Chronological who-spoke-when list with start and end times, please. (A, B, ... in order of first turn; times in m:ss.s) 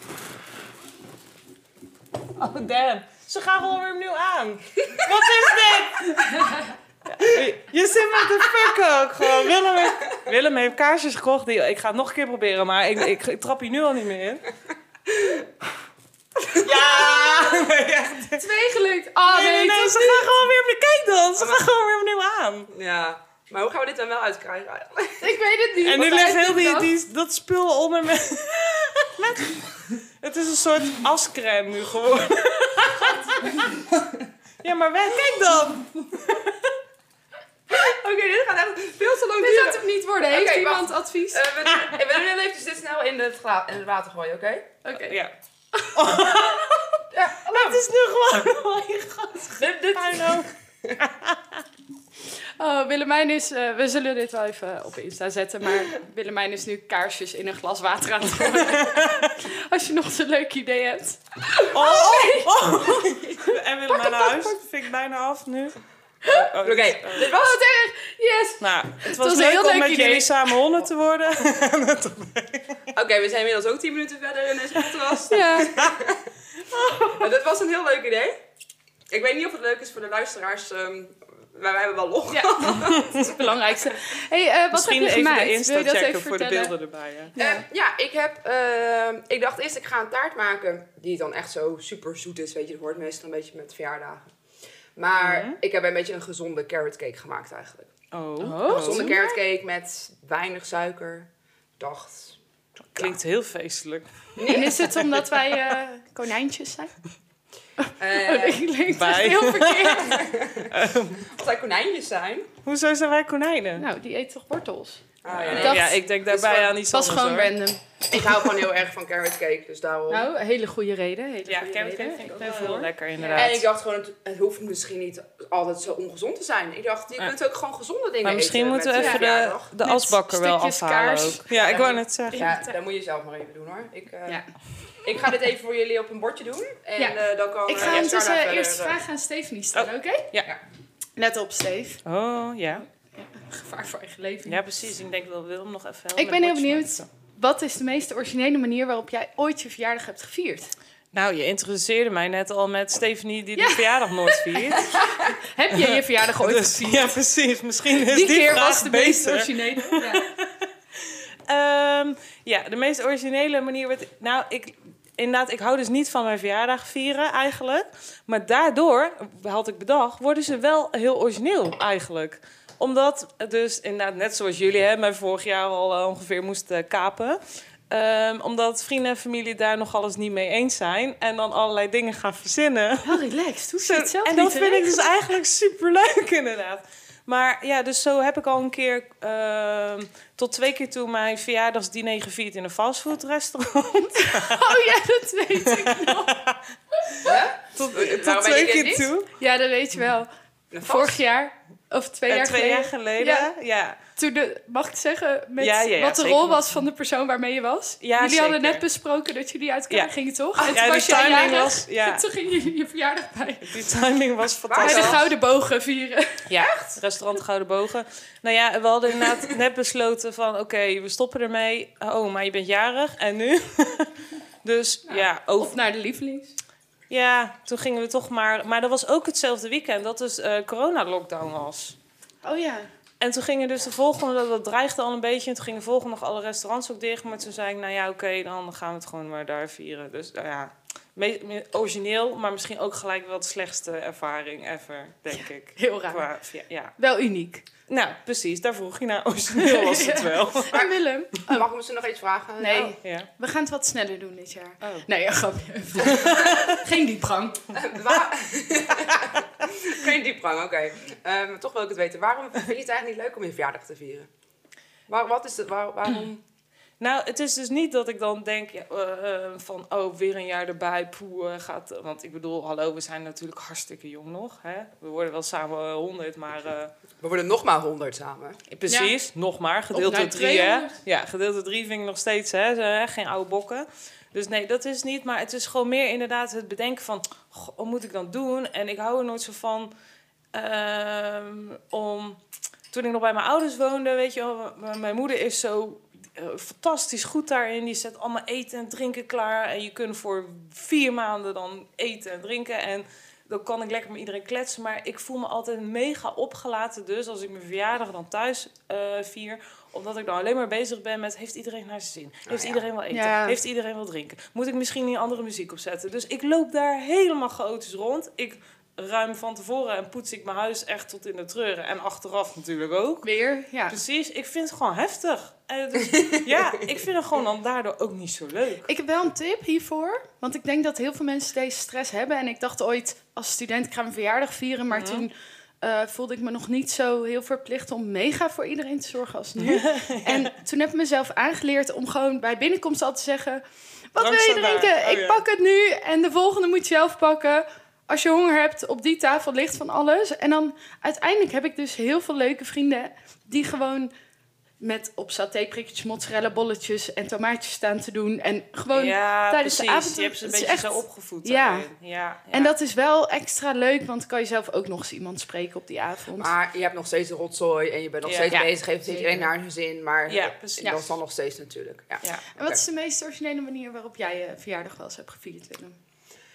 0:02.4-0:14.5 A
0:16.5-0:18.4 A
0:16.7-0:17.4 B
0:18.4-0:20.3 B
0:19.3-0:22.7 A
0:21.4-0:21.6 C
0:22.7-0:25.4 C
0:25.2-0:26.9 B
0:25.8-0:33.8 A
0:34.6-0:36.6 A
0:37.7-0:44.8 C
0:39.4-0:41.5 B
0:44.8-0:45.2 B
0:45.1-0:45.3 A
0:45.7-0:46.3 B
0:45.9-0:51.6 A
0:47.1-0:47.8 C
0:49.6-0:51.0 C
0:52.6-1:04.6 B
0:58.7-0:59.2 A
1:01.7-1:05.8 A
1:06.3-1:07.3 A
1:06.5-1:07.6 C
1:07.2-1:10.6 B
1:08.6-1:12.9 A
1:12.9-1:16.3 C
1:15.3-1:15.8 B
1:17.1-1:18.4 C
1:19.1-1:23.4 C
1:22.3-1:26.7 B
1:22.8-1:23.1 A
1:24.7-1:27.3 A
1:27.4-1:27.6 B
1:27.4-1:34.3 C
1:35.0-1:37.9 C
1:35.2-1:35.6 A
1:38.1-1:39.1 A
1:38.4-1:39.4 B
1:38.7-1:42.4 C
1:42.9-1:44.5 A
1:44.4-1:45.1 C
1:44.5-1:46.9 B
1:47.8-1:50.3 B
1:48.0-1:48.6 C
1:48.9-1:51.2 A
1:50.0-1:52.5 C
1:52.6-1:53.9 A
1:53.8-1:56.0 B
1:55.2-1:56.8 C
1:55.3-1:57.6 A
1:56.8-1:58.3 B
1:58.1-2:00.3 C
2:00.1-2:03.6 B
2:01.5-2:03.6 A
2:03.3-2:09.7 C
2:08.2-2:12.5 A
2:08.9-2:09.3 B
2:09.8-2:12.7 B
2:11.5-2:14.4 C
2:15.0-2:19.0 C
2:17.0-2:20.3 B
2:19.8-2:20.5 A
2:21.2-2:22.0 B
2:22.0-2:22.9 A
2:23.1-2:24.6 B
2:24.5-2:27.1 A
2:26.2-2:30.7 B
2:31.1-2:34.9 A
2:33.6-2:37.2 B
2:35.7-2:57.4 A
2:38.0-2:40.3 B
2:57.9-3:03.2 A
3:03.0-3:05.0 B
3:03.8-3:14.8 A
3:14.2-3:16.4 B
3:15.6-3:16.6 A
3:17.2-3:19.3 A
3:17.2-3:19.1 C
3:19.4-3:20.3 B
3:20.7-3:21.2 C
3:20.8-3:23.5 B
3:22.3-3:24.0 A
3:24.2-3:33.7 B
3:25.6-3:26.7 A
3:28.0-3:28.8 A
3:30.6-3:32.2 A
3:33.6-3:35.3 A
3:34.7-3:35.3 C
3:34.8-3:36.4 B
3:36.5-3:45.8 A
3:36.6-3:36.8 C
3:45.1-3:46.5 B
3:47.1-3:52.0 A
3:52.4-3:52.9 B
3:53.2-4:07.0 A
4:05.3-4:06.3 B
4:07.0-4:07.7 B
4:07.9-4:10.9 A
4:09.6-4:11.6 B
4:11.5-4:13.0 C
4:12.6-4:17.7 B
4:13.0-4:13.3 A
4:17.7-4:24.3 C
4:25.1-4:26.4 C
4:27.0-4:36.9 A
4:37.2-4:38.6 C
4:38.7-4:49.9 A
4:38.9-4:39.1 B
4:39.9-4:41.0 B
4:50.5-4:52.4 A
4:52.9-5:23.3 A
5:12.5-5:12.8 C
5:13.1-5:13.6 B
5:23.2-5:24.0 B
5:23.9-5:28.9 A
5:28.9-5:54.1 B
5:34.9-5:35.3 A
5:39.6-5:40.5 A
5:44.2-5:45.4 A
5:54.8-6:01.9 B
5:58.9-6:02.7 A
6:02.5-6:06.5 B
6:06.4-6:12.8 C
6:08.2-6:08.6 A
6:08.5-6:09.5 B
6:10.3-6:11.0 A
6:12.6-6:16.0 B